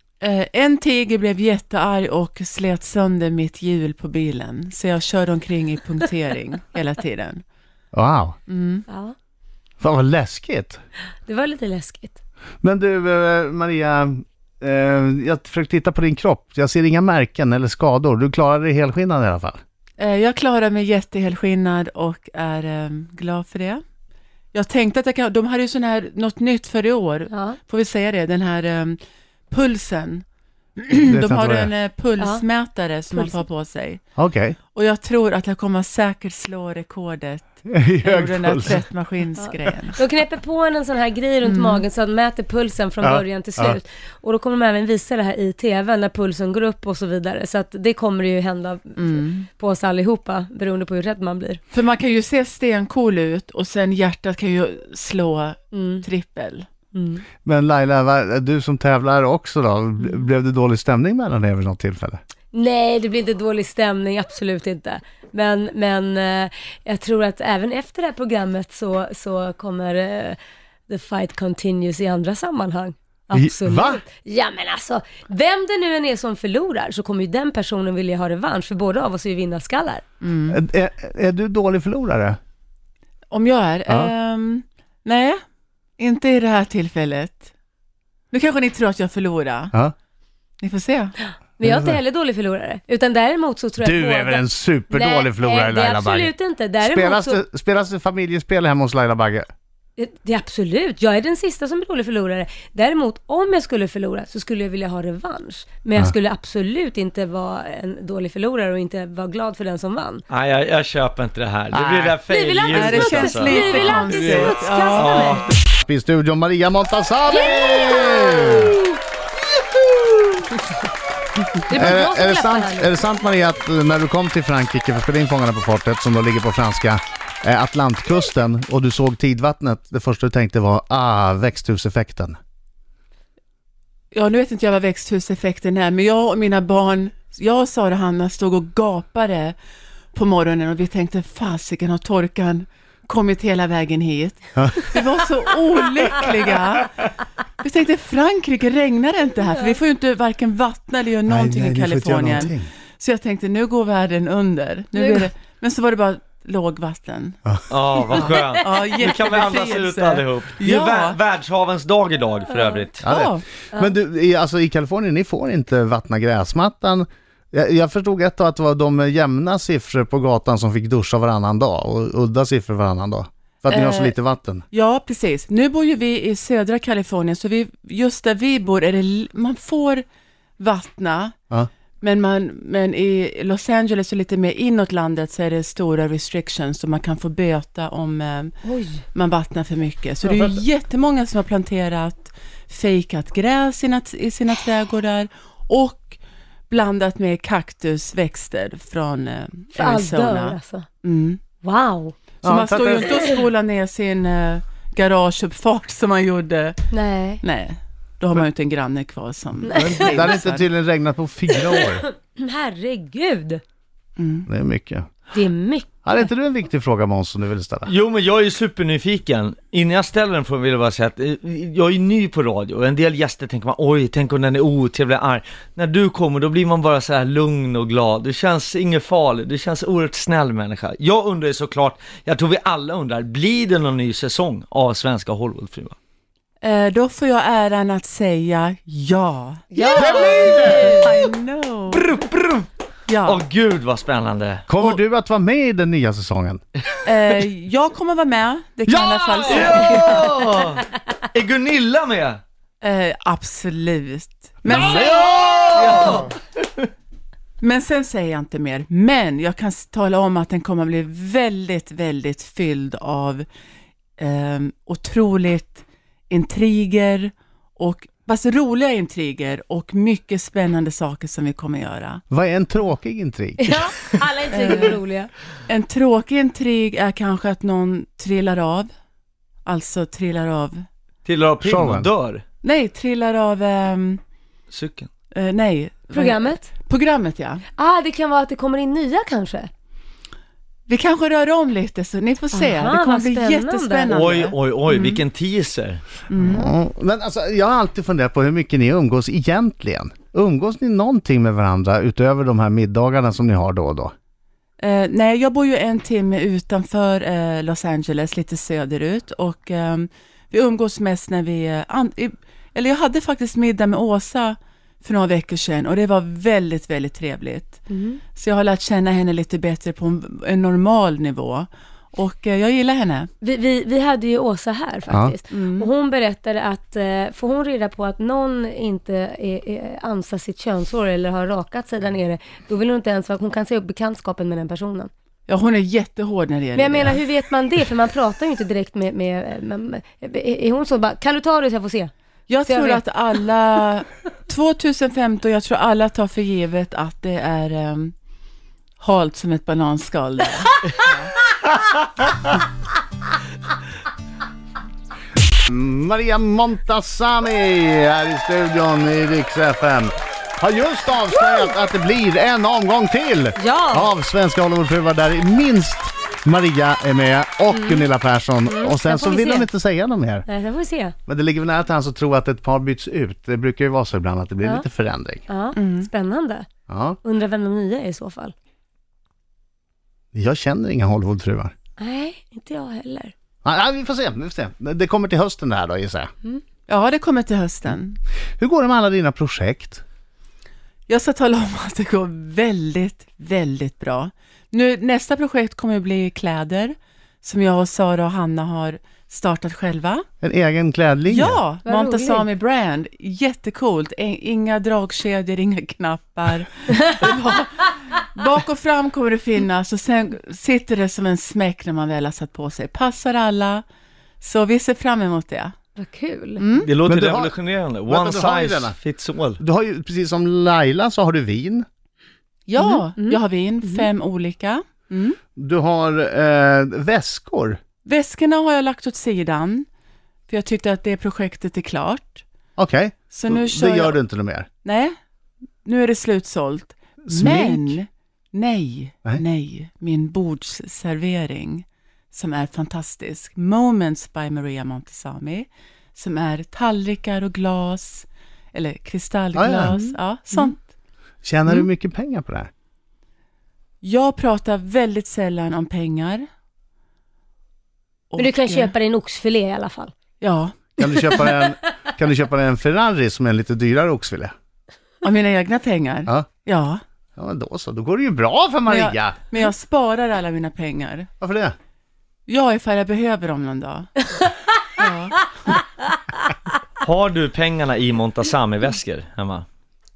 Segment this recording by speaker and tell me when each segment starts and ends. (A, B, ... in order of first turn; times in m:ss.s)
0:00.2-0:07.4 A
0:07.9-0:08.4 B
0:08.5-0:08.8 A
0:08.9-0:09.2 C
0:09.8-0:10.8 B
0:11.3-0:12.2 C
0:12.6-0:19.6 B
0:20.0-0:23.8 A
0:24.5-0:29.0 A
0:27.3-0:27.6 C
0:29.5-0:30.2 A
0:30.8-0:34.0 A
0:31.0-0:31.7 B
0:33.1-0:33.4 C
0:34.2-0:34.6 B
0:34.7-0:40.0 A
0:37.7-0:38.8 B
0:39.4-0:51.6 C
0:41.4-0:41.8 A
0:43.0-0:43.8 B
0:49.0-0:49.5 A
0:51.7-0:56.7 A
0:55.7-0:56.0 C
0:56.9-0:57.2 C
0:57.4-1:02.2 B
1:02.5-1:20.0 C
1:13.3-1:14.0 B
1:20.2-1:20.6 A
1:20.5-1:22.4 B
1:23.3-1:25.4 A
1:26.0-1:27.5 A
1:28.3-1:29.7 A
1:30.6-1:31.2 A
1:31.2-1:37.4 C
1:31.6-1:32.0 B
1:33.8-1:39.5 B
1:40.0-1:50.2 C
1:50.3-1:55.5 D
1:51.7-1:52.2 B
1:52.3-1:55.5 C
1:52.7-1:55.3 A
1:55.7-1:58.8 B
1:57.3-1:58.9 C
2:01.7-2:03.0 C
2:01.7-2:12.4 B
2:14.1-2:19.6 A
2:20.1-2:27.0 A
2:24.6-2:24.8 B
2:27.6-2:37.4 A
2:31.3-2:32.7 B
2:35.0-2:35.3 C
2:37.7-2:43.1 D
2:38.1-2:41.2 A
2:43.0-2:54.6 B
2:43.1-2:43.4 A
2:53.7-2:54.2 A
2:54.7-3:00.0 A
3:00.6-3:01.3 A
3:02.0-3:08.6 A
3:08.6-3:09.0 C
3:09.1-3:16.2 A
3:10.3-3:10.6 B
3:16.7-3:21.4 A
3:19.8-3:20.9 C
3:21.6-3:22.2 C
3:22.4-3:26.8 A
3:22.4-3:23.1 B
3:26.9-3:27.4 C
3:27.4-3:30.7 A
3:29.6-3:30.2 C
3:29.7-3:32.0 B
3:31.5-3:33.6 C
3:34.2-3:34.5 A
3:34.5-3:35.1 B
3:35.3-3:36.0 C
3:36.0-3:37.9 B
3:37.9-3:56.0 D
3:56.6-3:59.7 A
3:59.7-4:01.1 C
3:59.8-4:01.1 B
4:00.2-4:00.5 D
4:00.5-4:02.1 A
4:01.9-4:02.7 D
4:03.1-4:03.4 A
4:03.2-4:04.7 D
4:04.7-4:06.6 B
4:07.0-4:10.6 A
4:09.1-4:09.8 B
4:09.5-4:12.4 D
4:12.8-4:15.2 A
4:14.7-4:16.3 B
4:14.8-4:16.3 D
4:15.8-4:16.1 A
4:15.9-4:16.2 C
4:17.6-4:23.5 A
4:24.2-4:32.2 A
4:32.3-4:33.8 B
4:33.6-4:35.3 C
4:34.5-4:35.0 A
4:35.7-4:38.9 A
4:39.7-4:40.8 A
4:41.2-4:42.4 D
4:41.6-4:42.1 B
4:42.6-4:44.2 A
4:44.7-4:45.1 D
4:45.3-4:47.6 A
4:46.1-4:46.7 C
4:47.8-4:49.7 C
4:50.9-4:55.2 A
4:52.5-4:54.1 C
4:54.1-4:56.0 D
4:56.3-4:56.7 A
4:56.4-5:04.1 B
5:04.8-5:23.3 A
5:17.9-5:18.2 C
5:23.4-5:35.1 C
5:25.5-5:25.9 A
5:35.5-5:37.2 A
5:36.8-5:42.1 C
5:42.5-5:48.1 A
5:42.6-5:43.0 C
5:49.0-5:51.3 A
5:55.6-6:10.4 B
6:01.4-6:01.6 C
6:03.6-6:04.1 C
6:07.7-6:08.1 C
6:08.6-6:09.7 C
6:10.5-6:11.2 C
6:11.3-6:15.5 B
6:15.5-6:16.7 C
6:15.8-6:16.1 A
6:16.9-6:17.2 B
6:17.2-6:18.5 C
6:20.3-6:21.7 B
6:22.0-6:23.3 C
6:23.6-6:26.3 B
6:26.9-6:28.2 A
6:28.6-6:30.0 B
6:31.1-6:40.2 A
6:40.4-6:41.6 B
6:41.3-6:53.8 A
6:41.8-6:42.5 C
6:46.9-6:47.2 C
6:54.4-6:55.7 A
6:56.0-6:56.6 C
6:56.6-6:56.9 A
6:56.8-6:59.6 D
6:57.1-6:57.5 B
6:58.1-6:59.0 B
6:59.6-7:01.9 B
7:02.7-7:05.4 A
7:02.8-7:04.0 C
7:05.6-7:07.8 B
7:08.1-7:09.9 A
7:10.5-7:12.4 A
7:12.8-7:14.7 B
7:13.3-7:14.2 A
7:14.8-7:15.1 A
7:15.8-7:30.8 A
7:17.3-7:18.0 B
7:29.6-7:29.9 B
7:29.8-7:30.7 C
7:31.4-7:32.7 B
7:34.0-7:36.4 A
7:38.3-7:38.9 A
7:38.4-7:40.1 C
7:40.4-7:41.5 A
7:41.0-7:44.5 B
7:45.2-7:47.0 A
7:47.4-7:49.4 B
7:48.9-7:51.3 A
7:51.4-7:51.7 B
7:52.5-7:55.8 A
7:57.0-7:59.6 D